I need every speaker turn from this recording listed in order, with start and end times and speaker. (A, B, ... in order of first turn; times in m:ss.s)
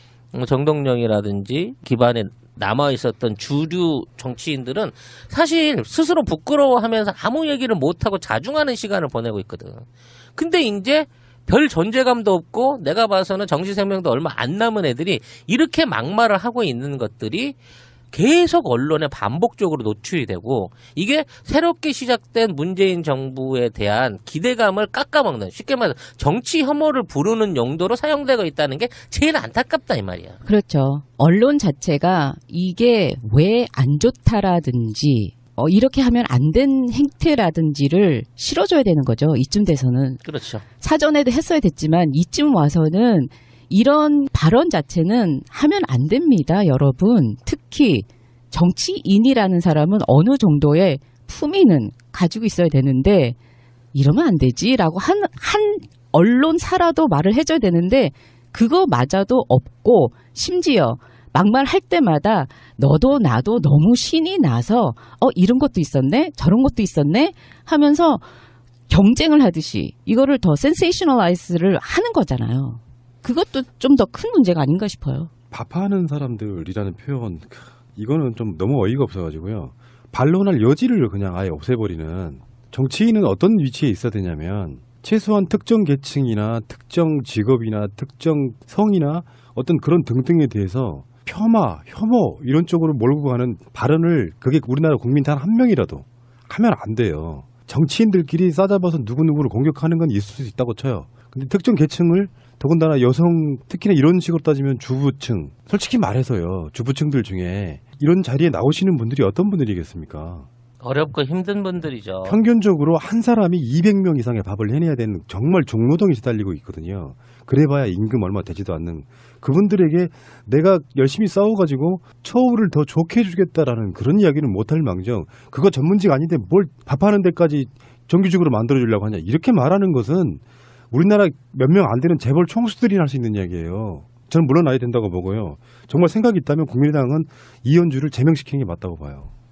0:00.3-0:17.6 A
0:18.1-0:30.4 A
0:30.4-0:40.2 B
0:40.2-0:40.6 A
0:40.8-0:53.4 B
0:53.9-1:08.3 B
1:08.9-1:15.3 B
1:15.5-1:50.5 C
1:50.8-1:52.4 A
1:52.2-2:19.3 C